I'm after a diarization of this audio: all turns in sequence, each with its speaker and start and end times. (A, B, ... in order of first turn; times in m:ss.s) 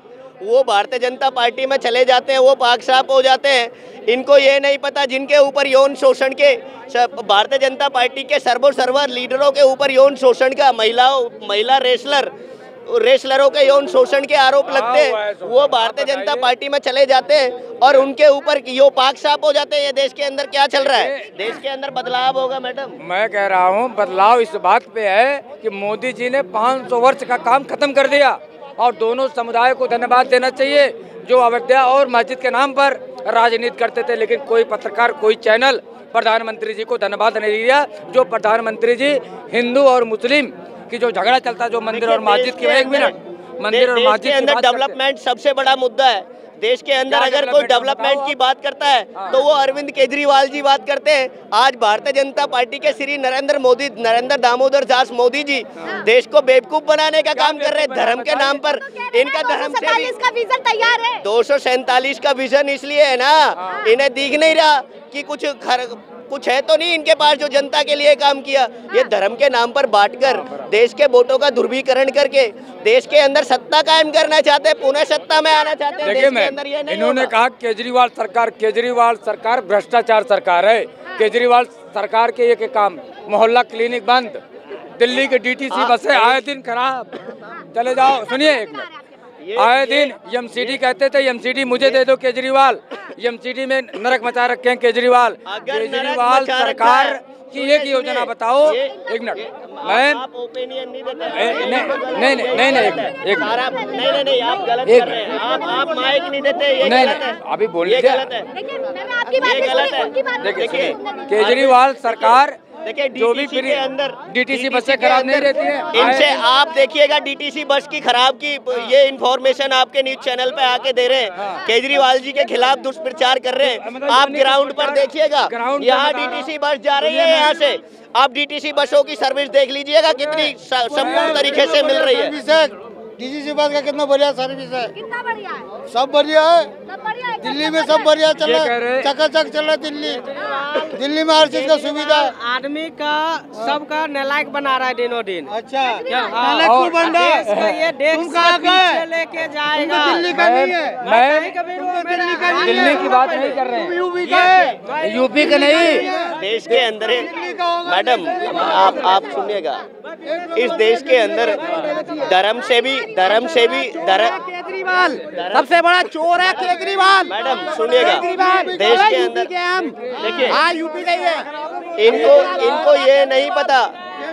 0:00.4-0:12.3 A
0:12.8-0:23.0 A
0:14.6-0:16.5 B
0:20.7-0:21.6 B
0:23.0-0:45.0 B
0:41.9-0:43.1 A
0:43.7-1:00.1 A
0:47.1-0:48.4 B
0:49.1-0:49.4 B
0:57.3-0:58.6 B
0:58.6-1:01.2 C
1:01.2-1:17.3 A
1:03.6-1:03.8 B
1:10.2-1:10.7 B
1:15.5-1:16.2 C
1:16.0-1:24.4 B
1:25.0-1:27.2 B
1:25.7-1:26.4 A
1:27.7-1:28.9 B
1:29.4-1:30.8 A
1:29.6-1:40.2 B
1:35.5-1:48.5 A
1:41.3-1:43.6 B
1:44.8-1:45.4 B
1:46.8-1:48.3 B
1:48.6-1:51.4 C
1:49.4-2:12.4 A
1:50.4-1:52.6 B
1:53.1-1:56.4 B
2:01.4-2:01.6 B
2:03.6-2:06.5 B
2:07.0-2:07.6 B
2:10.9-2:11.8 B
2:12.4-2:14.9 D
2:14.9-2:15.8 C
2:15.9-2:16.7 D
2:16.8-2:18.2 C
2:17.7-2:20.2 D
2:18.3-2:19.2 B
2:19.9-2:25.6 E
2:21.0-2:22.3 D
2:25.6-2:27.1 D
2:25.8-2:26.4 C
2:26.1-2:30.4 E
2:26.6-2:27.9 B
2:28.2-2:28.8 D
2:30.2-2:31.6 B
2:31.0-2:33.1 E
2:32.5-2:34.1 B
2:34.9-2:36.1 B
2:36.2-2:39.8 A
2:40.5-2:44.4 A
2:45.2-2:50.7 A
2:52.0-2:53.9 A